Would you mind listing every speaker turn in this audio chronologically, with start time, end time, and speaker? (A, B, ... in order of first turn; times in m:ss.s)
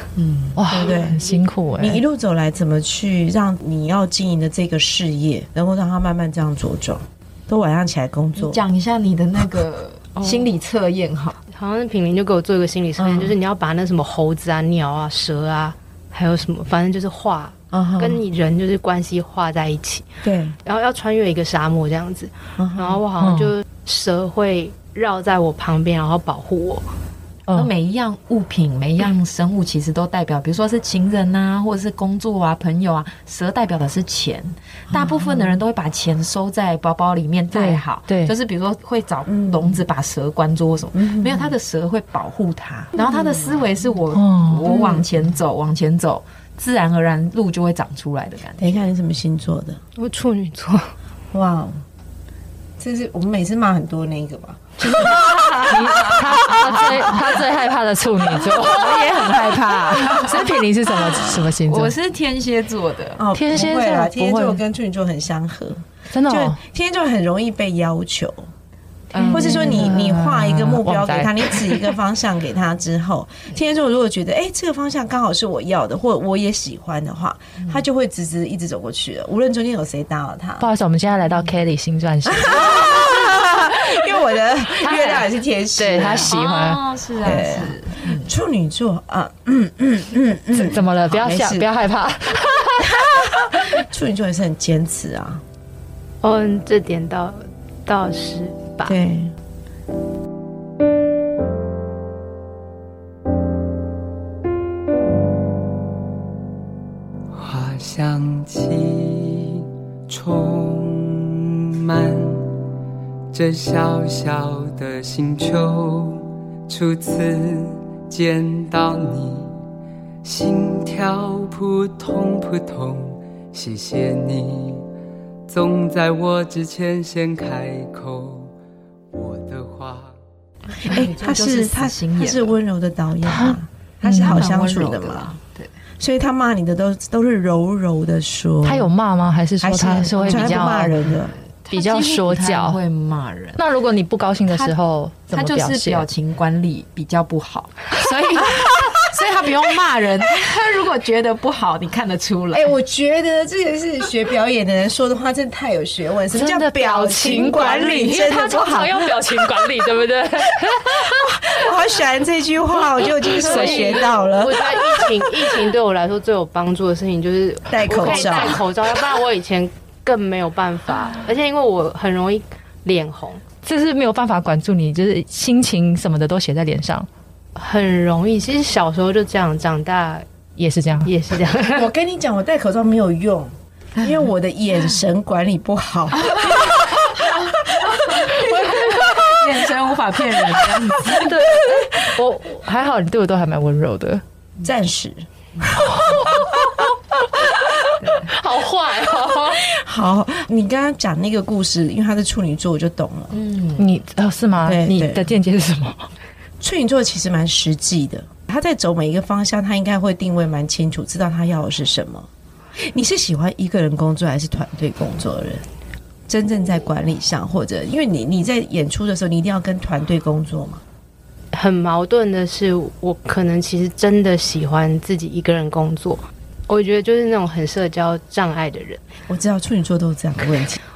0:00.2-0:00.6 A
0:00.6-0:02.0 B
0:00.7-0:01.2 C
0:01.8-0:08.6 C
0:08.4-0:11.4 A
0:11.5-0:20.1 D
0:13.0-0:13.3 C
0:17.7-0:18.2 C
0:20.2-0:20.6 C
0:20.6-0:26.9 D
0:22.6-0:23.0 C
0:23.2-0:23.5 B
0:27.5-0:48.8 A
0:34.9-0:35.6 C
0:37.5-0:38.3 B
0:39.3-0:39.8 C
0:40.9-0:41.5 C
0:43.0-0:43.5 C
0:44.1-0:44.6 B
0:44.6-0:45.1 C
0:48.6-0:49.8 C
0:50.0-0:50.9 D
0:51.3-0:51.8 C
0:52.8-0:55.2 C
0:54.8-1:01.9 B
0:54.9-0:57.2 A
0:56.7-0:57.0 C
0:58.3-1:03.2 A
1:03.2-1:08.4 C
1:03.3-1:04.6 B
1:06.1-1:06.6 B
1:09.1-1:11.9 B
1:09.1-1:09.9 A
1:09.2-1:20.7 C
1:20.6-1:24.1 B
1:22.2-1:26.3 C
1:24.8-1:26.8 B
1:26.2-1:28.3 A
1:27.2-1:31.7 C
1:30.6-1:33.3 B
1:32.8-1:35.4 C
1:36.2-1:39.0 D
1:38.8-1:39.3 C
1:47.3-1:52.5 E
1:53.3-1:59.5 E
2:00.2-2:04.8 E
2:05.5-2:08.5 E
2:09.1-2:10.2 E
2:10.7-2:15.3 C
2:10.8-2:12.5 A
2:13.2-2:14.4 B
2:14.1-2:15.7 A
2:16.0-2:18.9 C
2:18.6-2:21.0 B
2:19.6-2:21.4 C
2:20.1-2:20.8 A
2:21.6-2:23.6 A
2:21.7-2:22.8 B
2:23.6-2:26.0 B
2:24.5-2:24.7 A
2:25.3-2:32.7 A
2:32.5-2:39.5 C
2:36.3-2:41.7 B
2:41.0-2:45.1 C
2:43.0-2:44.1 B
2:43.4-2:53.4 D
2:47.7-2:48.6 C
2:53.6-2:57.1 B
2:57.6-3:00.2 D
3:00.6-3:01.1 B
3:01.0-3:01.9 D
3:01.7-3:08.7 C
3:06.2-3:11.5 A
3:11.1-3:14.2 B
3:14.6-3:15.2 C
3:15.7-3:19.6 B
3:18.0-3:18.3 A
3:19.5-3:23.4 C
3:23.3-3:23.9 A
3:23.8-3:26.1 B
3:24.6-3:25.3 C
3:26.6-3:35.6 C
3:36.3-3:40.8 C
3:41.5-3:49.0 D
3:49.3-3:50.8 C